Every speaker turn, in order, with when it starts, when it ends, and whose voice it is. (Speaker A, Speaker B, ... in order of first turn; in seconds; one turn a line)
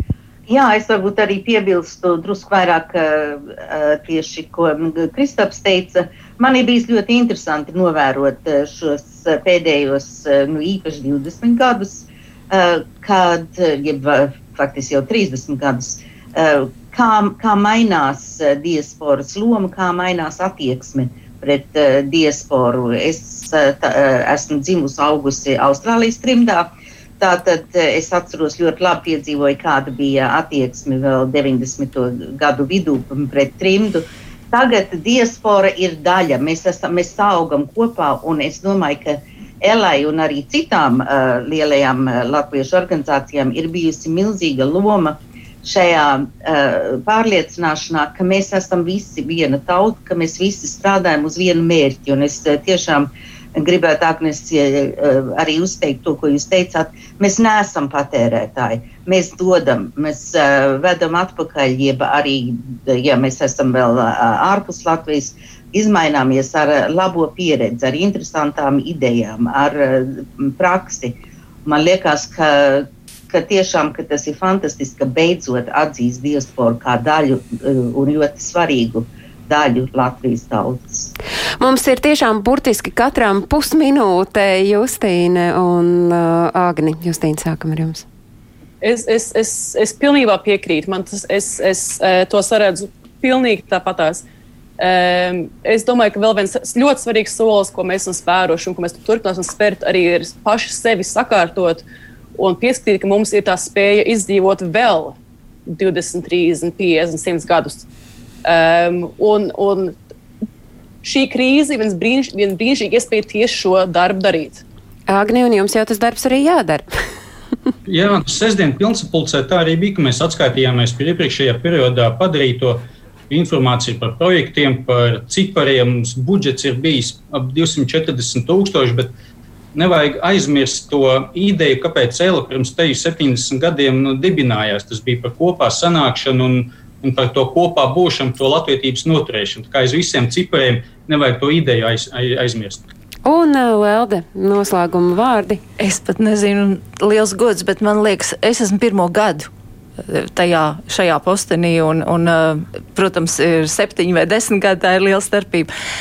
Speaker A: 0.5-81.1
Speaker B: 81.6-88.0
Speaker C: 88.8-94.2
Speaker C: 94.8-101.8
Speaker C: 102.3-107.9
Speaker C: 108.4-109.9
Speaker C: 111.0-114.6
Speaker B: 115.1-116.9
Speaker D: 117.9-129.1
Speaker D: 129.7-142.9
Speaker B: 143.2-145.6
Speaker E: 145.8-149.5
Speaker E: 150.1-155.7